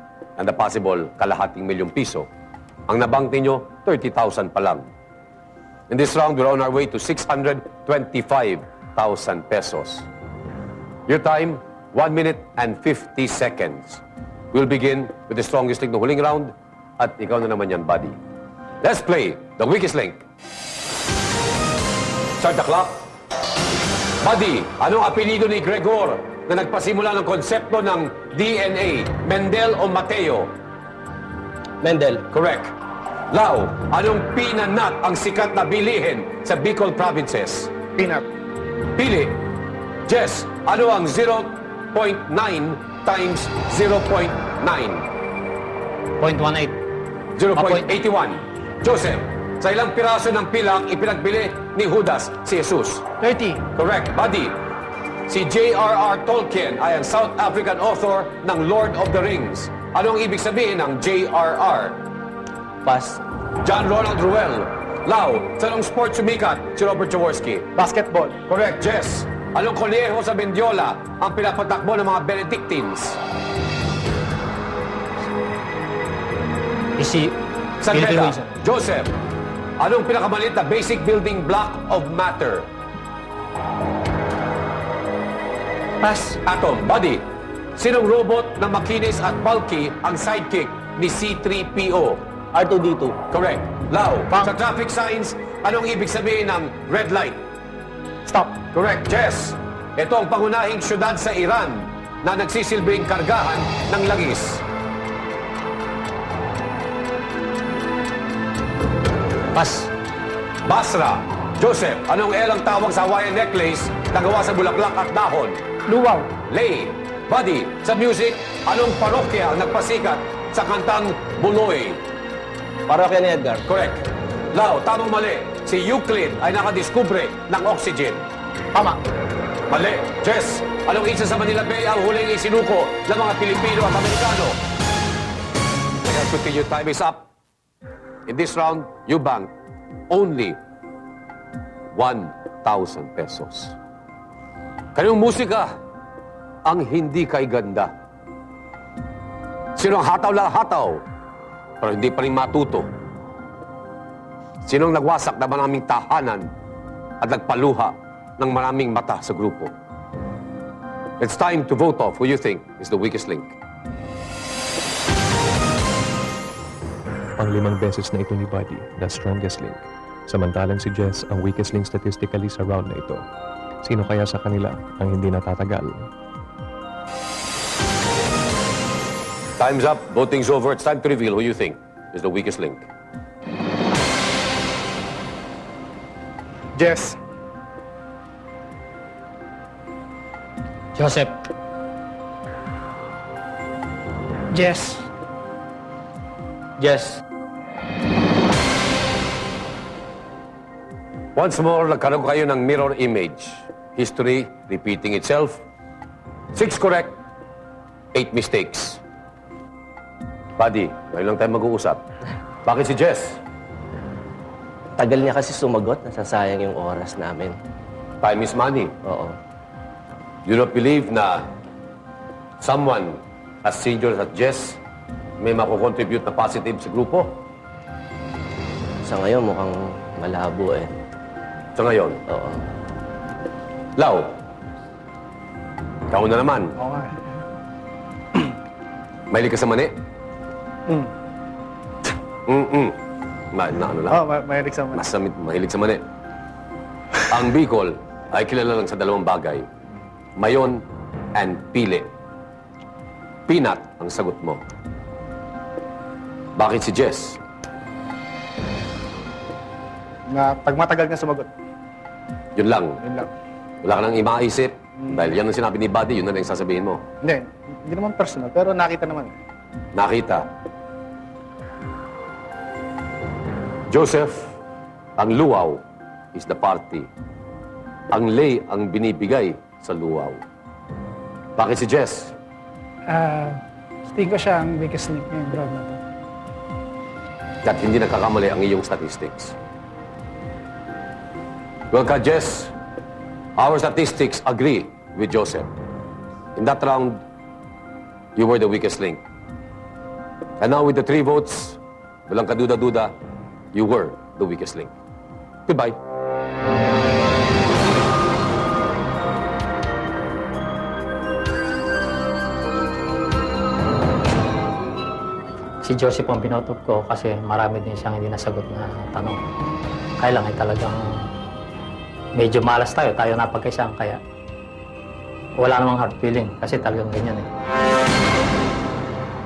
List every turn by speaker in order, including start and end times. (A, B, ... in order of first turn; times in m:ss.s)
0:00.4-0:02.3 A
0:02.9-0:04.9 A
0:05.9-0:10.1 A
0:11.1-0:14.0 A
0:14.5-0:18.2 A
0:18.8-0:20.2 A
0:22.4-0:23.0 A
0:24.2-0:30.5 A
0:31.8-0:32.2 B
0:32.3-0:32.8 A
0:33.3-0:37.7 A
0:38.0-0:38.3 C
0:39.0-0:39.4 A
0:40.1-0:45.1 A
0:46.2-0:46.8 D
0:47.4-0:53.1 A
0:47.6-0:47.9 D
0:53.2-0:53.6 D
0:53.8-0:54.6 A
0:55.3-1:02.0 A
1:02.8-1:03.2 B
1:03.6-1:07.7 A
1:07.8-1:08.4 C
1:08.5-1:13.2 A
1:17.0-1:17.3 D
1:17.8-1:19.1 A
1:17.9-1:18.5 D
1:19.8-1:22.7 A
1:26.0-1:26.4 D
1:26.4-1:27.2 A
1:27.8-1:32.2 A
1:32.5-1:33.2 B
1:33.3-1:37.4 A
1:38.3-1:38.6 C
1:38.7-1:44.6 A
1:49.5-1:49.9 D
1:50.6-1:55.6 A
1:55.9-1:56.3 E
1:56.5-2:02.0 A
2:02.9-2:03.6 B
2:03.7-2:08.3 A
2:09.7-2:14.6 A
2:16.0-2:17.3 A
2:18.3-2:19.5 A
2:20.1-2:20.6 A
2:22.0-2:23.8 A
2:25.0-2:25.7 A
2:26.6-2:27.9 A
2:29.8-2:31.0 A
2:31.8-2:32.9 A
2:34.7-2:36.5 A
2:37.2-2:39.7 A
2:41.2-2:43.6 A
2:47.4-2:53.3 F
2:53.8-2:56.1 F
2:59.6-3:02.9 A
3:06.8-3:07.2 C
3:11.0-3:11.4 D
3:14.5-3:15.1 E
3:16.8-3:17.2 D
3:21.4-3:25.6 A
3:26.5-3:27.1 A
3:28.1-3:29.0 A
3:30.6-3:32.0 A
3:32.6-3:33.4 A
3:35.0-3:37.6 B
3:38.2-3:38.9 A
3:39.0-3:39.4 B
3:40.5-3:41.4 A
3:42.6-3:44.8 A
3:45.4-3:47.4 A
3:49.0-3:50.9 B
3:51.8-3:52.2 A
3:52.3-3:52.6 B
3:54.0-3:54.4 A
3:56.1-3:56.8 A
3:56.8-3:57.1 C
3:59.3-3:59.9 A
4:02.5-4:03.0 A
4:03.5-4:04.2 A
4:04.1-4:05.0 C
4:04.9-4:06.0 A
4:07.3-4:09.7 A
4:10.4-4:12.1 A
4:13.5-4:14.6 A
4:16.6-4:17.4 A
4:20.3-4:21.5 C
4:22.6-4:23.0 A
4:23.0-4:23.3 C
4:23.8-4:27.0 A
4:27.2-4:29.4 C
4:30.0-4:30.5 A
4:33.9-4:34.6 A
4:35.2-4:35.8 A
4:36.3-4:37.1 A
4:38.1-4:40.4 A
4:41.6-4:42.4 A
4:43.1-4:46.0 E
4:47.6-4:49.6 A
4:51.9-4:52.7 A
4:53.6-4:55.7 A
4:56.6-4:57.2 A
4:58.4-4:59.2 A
5:00.6-5:03.1 A
5:03.8-5:04.9 A
5:05.7-5:06.0 A
5:15.8-5:19.4 D
5:20.2-5:21.3 D
5:22.4-5:24.2 D
5:25.6-5:27.5 D